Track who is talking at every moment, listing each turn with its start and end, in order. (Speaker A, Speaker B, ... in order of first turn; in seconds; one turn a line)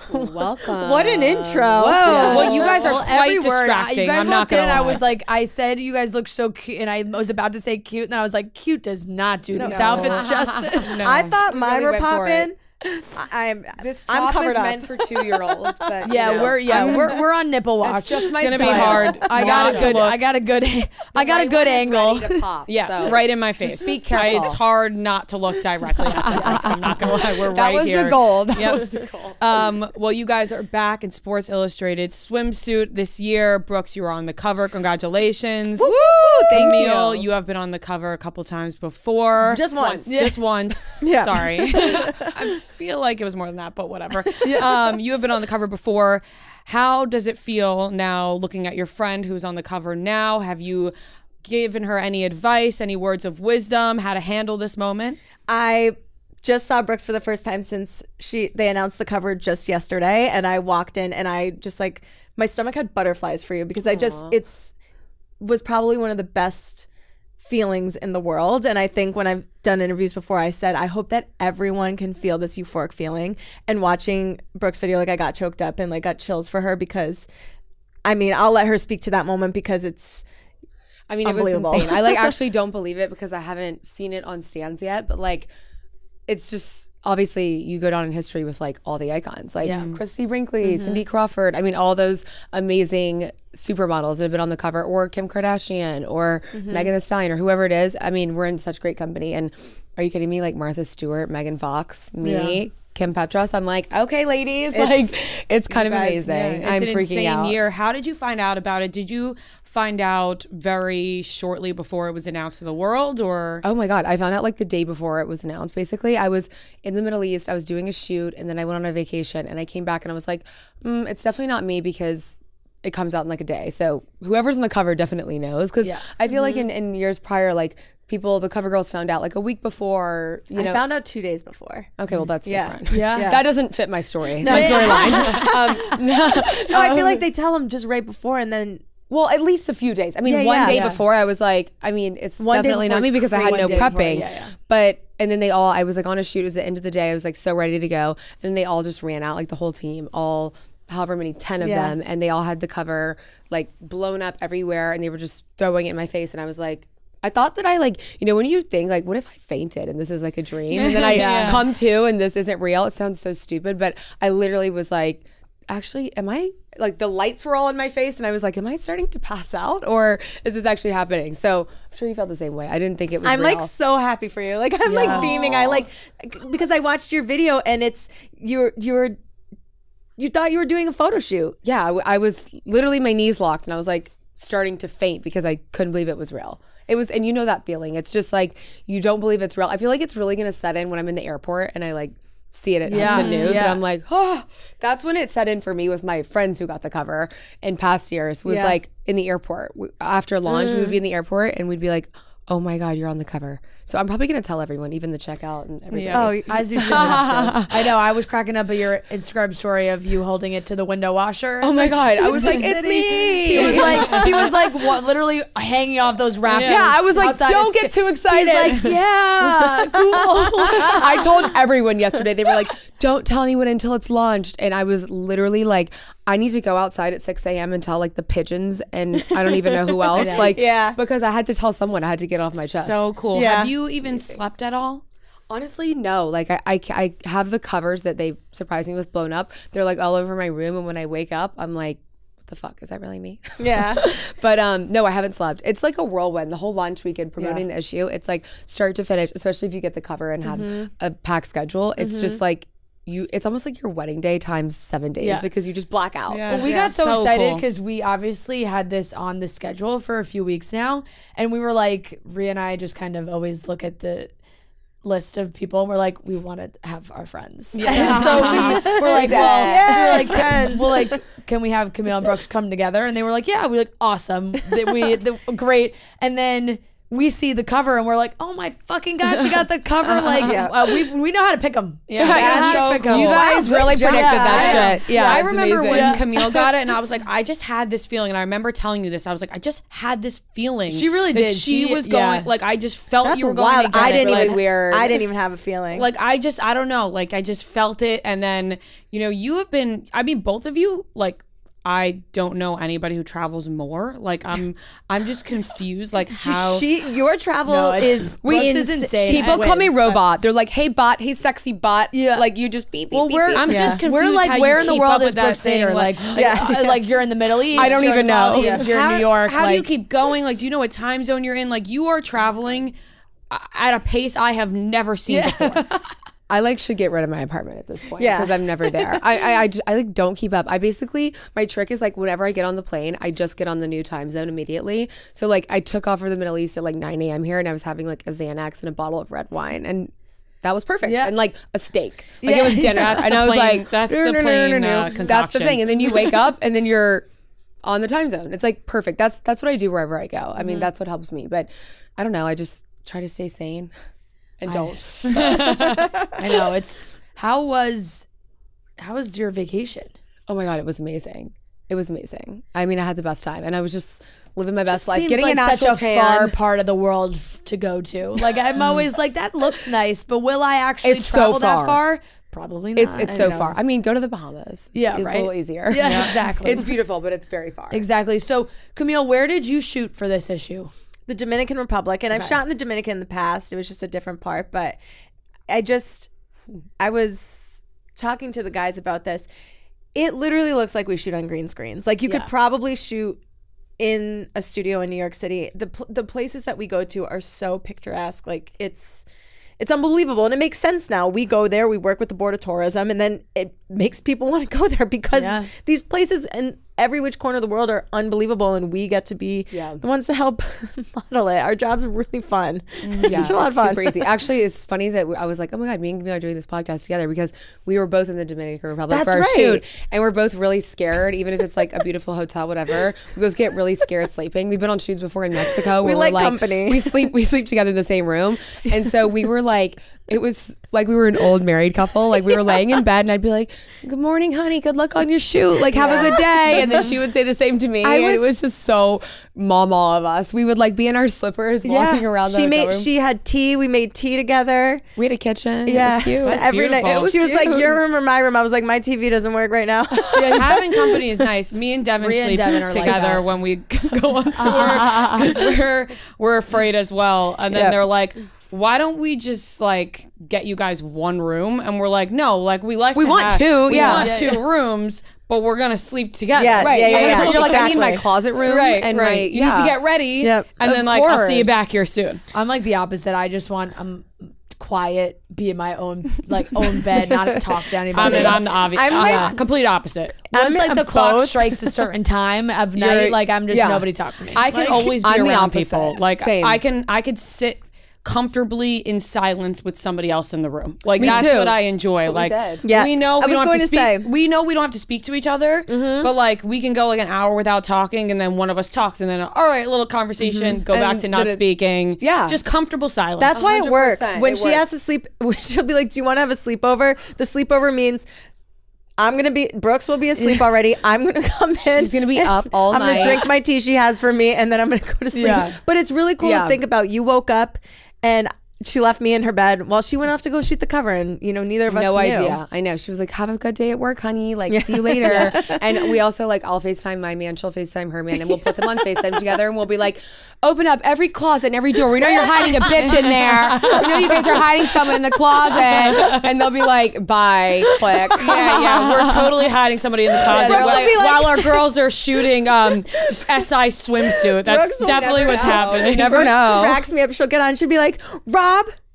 Speaker A: 0.1-2.9
Speaker B: 0.1-2.9
Speaker C: 1.8-11.0
Speaker D: 2.3-5.1
Speaker B: 9.5-17.2
Speaker A: 9.6-10.7
Speaker D: 10.8-11.4
Speaker A: 11.5-12.5
Speaker A: 13.8-17.1
Speaker C: 16.0-22.5
Speaker A: 17.8-20.1
Speaker D: 18.4-20.2
Speaker A: 21.1-24.6
Speaker D: 22.7-55.2
Speaker A: 26.1-29.4
Speaker C: 26.1-27.0
Speaker B: 35.8-37.3
Speaker A: 35.9-36.8
Speaker B: 39.5-40.1
Speaker A: 39.8-40.1
Speaker C: 40.1-40.4
Speaker B: 41.0-42.3
Speaker C: 44.4-44.7
Speaker B: 55.5-64.7
Speaker A: 63.9-64.3
Speaker B: 65.4-66.9
Speaker B: 67.4-77.3
Speaker B: 78.0-80.3
Speaker A: 81.1-85.5
Speaker B: 81.2-82.3
Speaker A: 86.3-107.6
Speaker C: 89.6-90.0
Speaker B: 90.6-91.0
Speaker B: 96.5-96.9
Speaker C: 102.2-102.6
Speaker B: 104.7-105.1
Speaker B: 105.7-106.5
Speaker D: 106.3-113.6
Speaker A: 113.6-130.8
Speaker B: 130.6-131.9
Speaker A: 132.0-137.2
Speaker B: 132.4-133.5
Speaker C: 132.9-133.4
Speaker B: 134.4-138.8
Speaker C: 134.4-136.0
Speaker A: 139.1-173.7
Speaker B: 140.2-140.9
Speaker C: 140.7-141.0
Speaker B: 142.4-144.3
Speaker C: 143.3-144.5
Speaker D: 160.7-161.7
Speaker C: 160.9-161.7
Speaker B: 173.2-179.2
Speaker C: 174.8-175.3
Speaker A: 175.0-175.9
Speaker B: 180.2-181.6
Speaker A: 181.6-207.9
Speaker C: 192.9-193.8
Speaker B: 193.0-193.6
Speaker B: 198.5-198.8
Speaker B: 200.5-201.0
Speaker D: 205.9-206.3
Speaker B: 206.1-207.2
Speaker C: 206.5-221.3
Speaker A: 211.6-214.5
Speaker B: 212.4-214.2
Speaker D: 213.7-214.2
Speaker D: 216.5-216.9
Speaker A: 216.6-218.9
Speaker B: 217.2-217.5
Speaker B: 218.4-218.9
Speaker B: 219.5-221.0
Speaker A: 220.7-233.1
Speaker B: 229.5-231.0
Speaker C: 230.1-230.6
Speaker D: 232.7-235.0
Speaker B: 233.3-233.7
Speaker A: 233.9-234.4
Speaker A: 235.5-257.0
Speaker B: 243.6-244.0
Speaker C: 247.4-247.7
Speaker B: 250.4-250.9
Speaker B: 252.0-252.4
Speaker C: 255.2-255.5
Speaker D: 256.3-257.6
Speaker C: 256.5-264.3
Speaker C: 265.0-286.2
Speaker A: 267.8-270.5
Speaker B: 267.8-271.2
Speaker D: 268.1-268.6
Speaker A: 280.4-280.7
Speaker B: 280.4-280.7
Speaker D: 282.1-294.6
Speaker A: 282.2-286.2
Speaker B: 282.2-285.4
Speaker C: 290.9-292.5
Speaker B: 293.2-296.1
Speaker A: 293.9-295.2
Speaker D: 295.9-306.9
Speaker B: 306.4-309.7
Speaker C: 307.7-310.2
Speaker A: 308.4-313.9
Speaker C: 312.1-312.5
Speaker C: 313.1-319.9
Speaker D: 313.6-316.3
Speaker B: 313.7-314.0
Speaker B: 316.3-317.0
Speaker A: 317.7-318.9
Speaker B: 317.8-318.6
Speaker D: 318.6-322.9
Speaker D: 323.5-325.8
Speaker C: 325.3-326.1
Speaker A: 326.5-340.1
Speaker B: 328.2-329.4
Speaker A: 340.6-347.2
Speaker C: 341.0-341.4
Speaker C: 342.4-343.4
Speaker D: 342.9-345.9
Speaker A: 347.8-353.9
Speaker A: 354.6-355.8
Speaker C: 354.7-358.3
Speaker D: 355.2-356.1
Speaker B: 355.5-356.3
Speaker C: 359.0-360.1
Speaker A: 360.5-366.6
Speaker C: 364.9-373.8
Speaker A: 371.0-372.0
Speaker A: 373.0-378.1
Speaker C: 374.9-376.9
Speaker D: 376.0-376.4
Speaker C: 377.9-380.9
Speaker B: 381.3-385.0
Speaker C: 382.3-382.6
Speaker B: 385.7-386.3
Speaker B: 387.0-389.5
Speaker B: 390.1-393.4
Speaker B: 394.0-399.3
Speaker B: 399.8-414.3
Speaker C: 405.3-405.7
Speaker A: 409.7-410.0
Speaker D: 413.0-413.5
Speaker A: 413.3-443.1
Speaker B: 419.1-419.8
Speaker B: 425.8-427.3
Speaker B: 432.5-432.8
Speaker B: 435.9-437.1
Speaker B: 438.0-438.4
Speaker B: 441.8-445.0
Speaker A: 445.2-446.6
Speaker B: 445.9-451.2
Speaker D: 446.4-447.7
Speaker A: 447.2-447.8
Speaker D: 450.2-468.0
Speaker C: 452.2-453.5
Speaker C: 454.6-455.5
Speaker B: 457.7-458.0
Speaker A: 463.1-464.3
Speaker C: 463.9-464.6
Speaker B: 466.6-468.3
Speaker A: 466.8-470.0
Speaker D: 468.6-472.4
Speaker B: 470.4-470.7
Speaker A: 470.8-471.7
Speaker C: 472.5-479.6
Speaker B: 477.1-477.6
Speaker D: 478.1-480.4
Speaker B: 478.2-479.6
Speaker B: 480.5-482.0
Speaker C: 480.5-485.2
Speaker A: 483.0-486.8
Speaker D: 484.6-503.7
Speaker A: 491.2-492.8
Speaker B: 492.8-494.3
Speaker B: 495.9-496.3
Speaker B: 500.6-501.2
Speaker A: 501.1-501.6
Speaker A: 502.2-502.6
Speaker B: 503.4-508.3
Speaker A: 503.5-504.9
Speaker B: 509.2-522.6
Speaker C: 510.4-510.7
Speaker A: 511.8-513.5
Speaker C: 515.3-515.8
Speaker A: 516.4-516.8
Speaker A: 521.9-539.3
Speaker B: 524.7-525.9
Speaker D: 533.5-534.4
Speaker D: 535.9-536.5
Speaker B: 538.2-539.6
Speaker D: 538.4-546.5
Speaker B: 540.4-541.9
Speaker C: 540.5-541.4
Speaker A: 540.6-541.0
Speaker B: 543.1-543.5
Speaker B: 544.3-549.0
Speaker A: 545.5-547.1